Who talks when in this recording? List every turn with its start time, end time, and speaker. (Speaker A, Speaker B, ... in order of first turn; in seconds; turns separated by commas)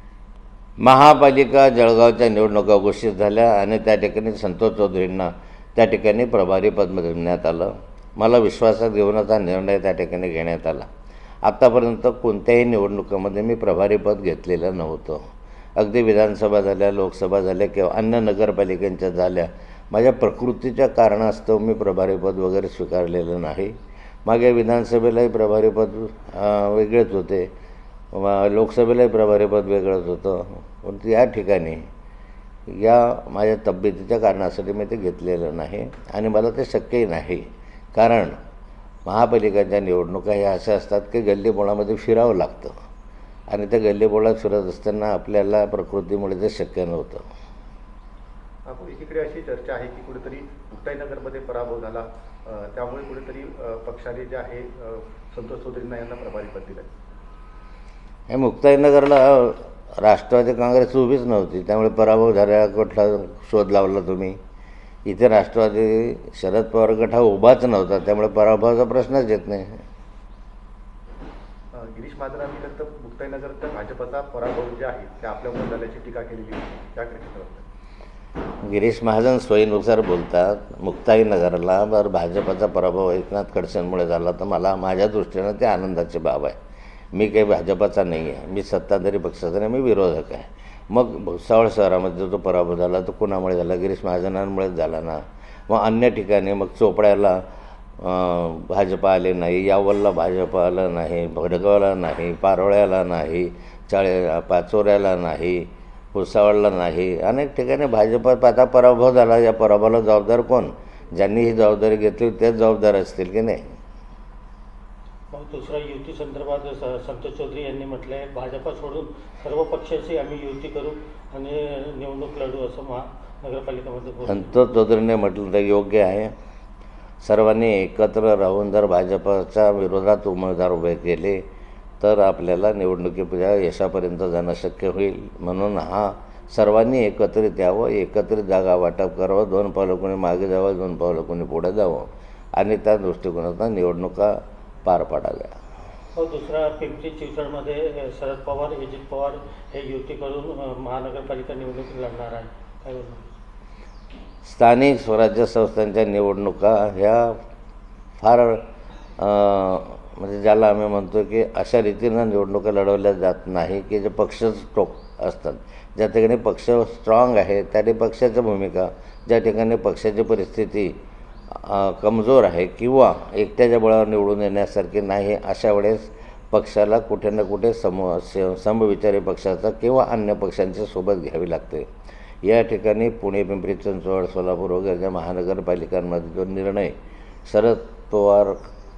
Speaker A: 0.8-10.9, Speaker A: 11.4-15.2, Speaker A: 15.8-23.7, Speaker A: 24.2-27.5, Speaker A: 28.1-31.9, Speaker A: 32.7-38.4, Speaker A: 39.0-42.7, Speaker A: 43.5-47.2, Speaker B: 48.6-56.9, Speaker A: 58.3-64.4, Speaker A: 65.0-69.8, Speaker B: 71.7-77.6, Speaker A: 78.6-86.5, Speaker A: 87.1-97.4, Speaker A: 98.0-113.6, Speaker C: 115.3-124.5, Speaker A: 124.3-126.3, Speaker A: 127.2-131.4, Speaker A: 132.0-145.6, Speaker C: 146.2-153.2, Speaker A: 154.4-157.4, Speaker A: 158.2-158.6, Speaker A: 159.2-170.9, Speaker A: 171.5-181.8, Speaker A: 182.4-186.9, Speaker A: 187.4-188.6